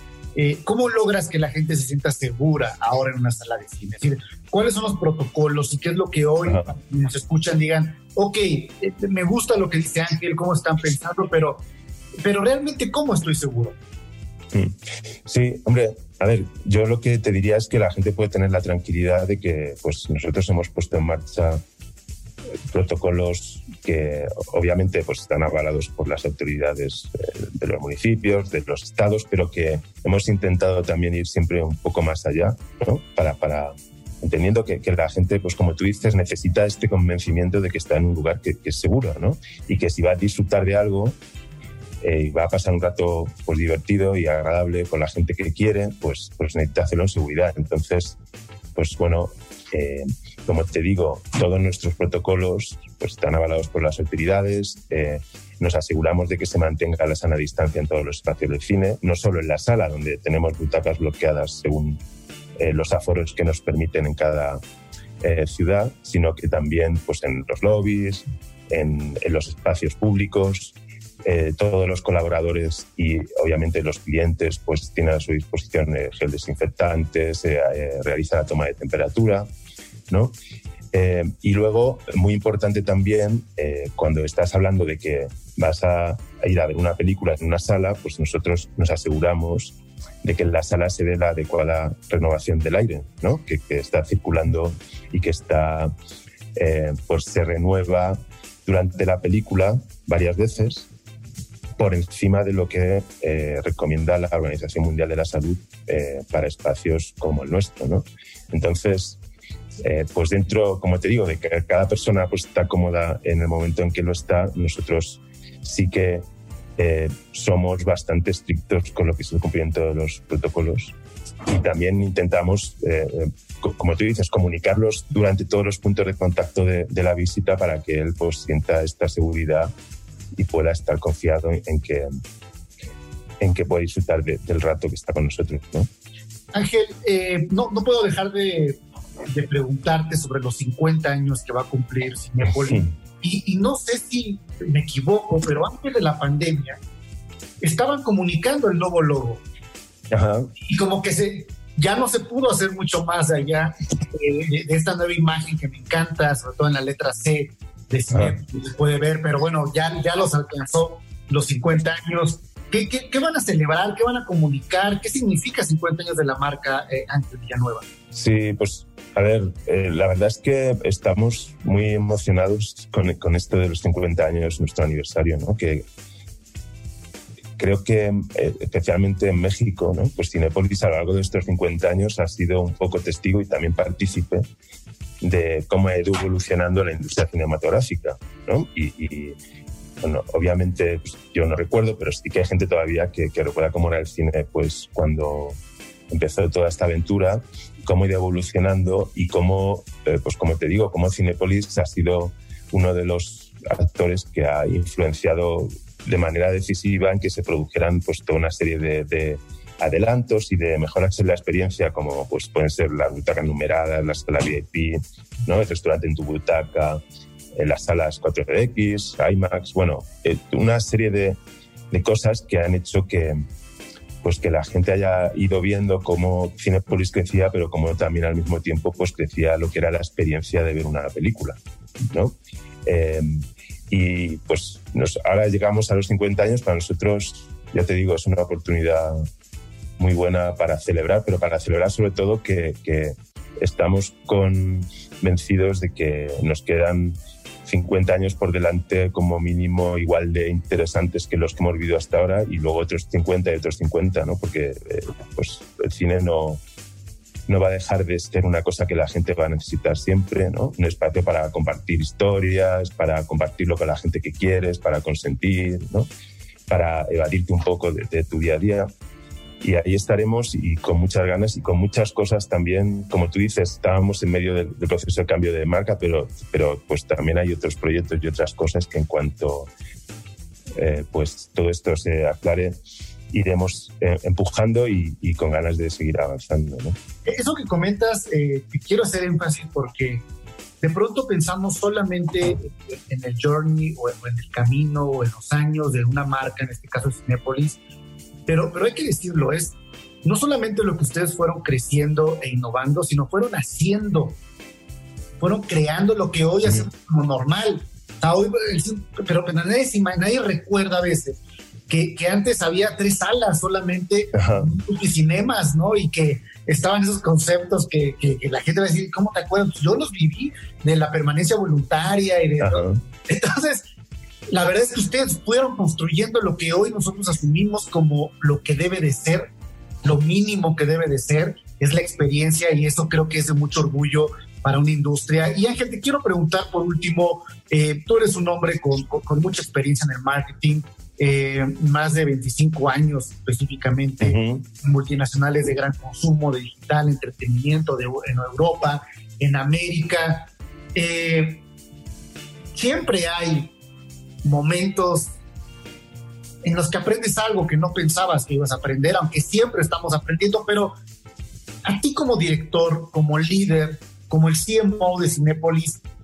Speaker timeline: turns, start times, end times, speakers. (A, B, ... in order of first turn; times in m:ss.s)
0:00.3-0:11.6 A
0:06.5-0:06.7 B
0:12.2-0:13.8 A
0:14.5-0:21.6 B
0:22.7-0:41.2 B
0:42.0-0:48.2 B
0:48.7-1:02.0 B
1:02.6-1:04.6 B
1:05.2-1:10.7 B
1:11.2-1:19.5 B
1:20.1-1:20.3 B
1:20.9-1:35.9 B
1:36.5-1:40.9 B
1:41.8-1:49.2 B
1:49.8-1:56.2 B
1:56.8-2:00.9 B
2:01.4-2:09.7 B
2:10.3-2:12.1 B
2:13.4-2:15.9 B
2:16.5-2:26.8 A
2:22.6-2:22.9 B
2:27.6-2:29.4 A
2:30.1-2:30.5 B
2:30.6-2:47.8 A
2:48.1-2:55.9 B
2:57.6-3:04.5 B
3:05.2-3:09.4 B
3:10.0-3:15.6 B
3:16.1-3:37.0 B
3:37.6-3:41.4 B
3:41.9-3:43.4 B
3:44.2-3:59.2 B
4:00.0-4:16.6 B
4:17.5-4:26.1 B
4:26.7-4:28.9 B
4:29.6-4:39.7 B
4:40.8-4:42.8 B
4:43.3-4:47.0 B
4:47.2-4:50.2 A
4:50.8-4:57.8 A
4:58.5-5:04.4 A
5:05.4-5:23.8 A
5:14.3-5:14.7 B
5:22.6-5:23.0 B
5:24.5-5:29.5 A
5:30.0-5:51.6 A
5:44.2-5:44.7 B
5:52.7-5:53.7 A
5:54.4-5:55.3 A
5:56.6-6:00.9 A
6:01.8-6:06.0 A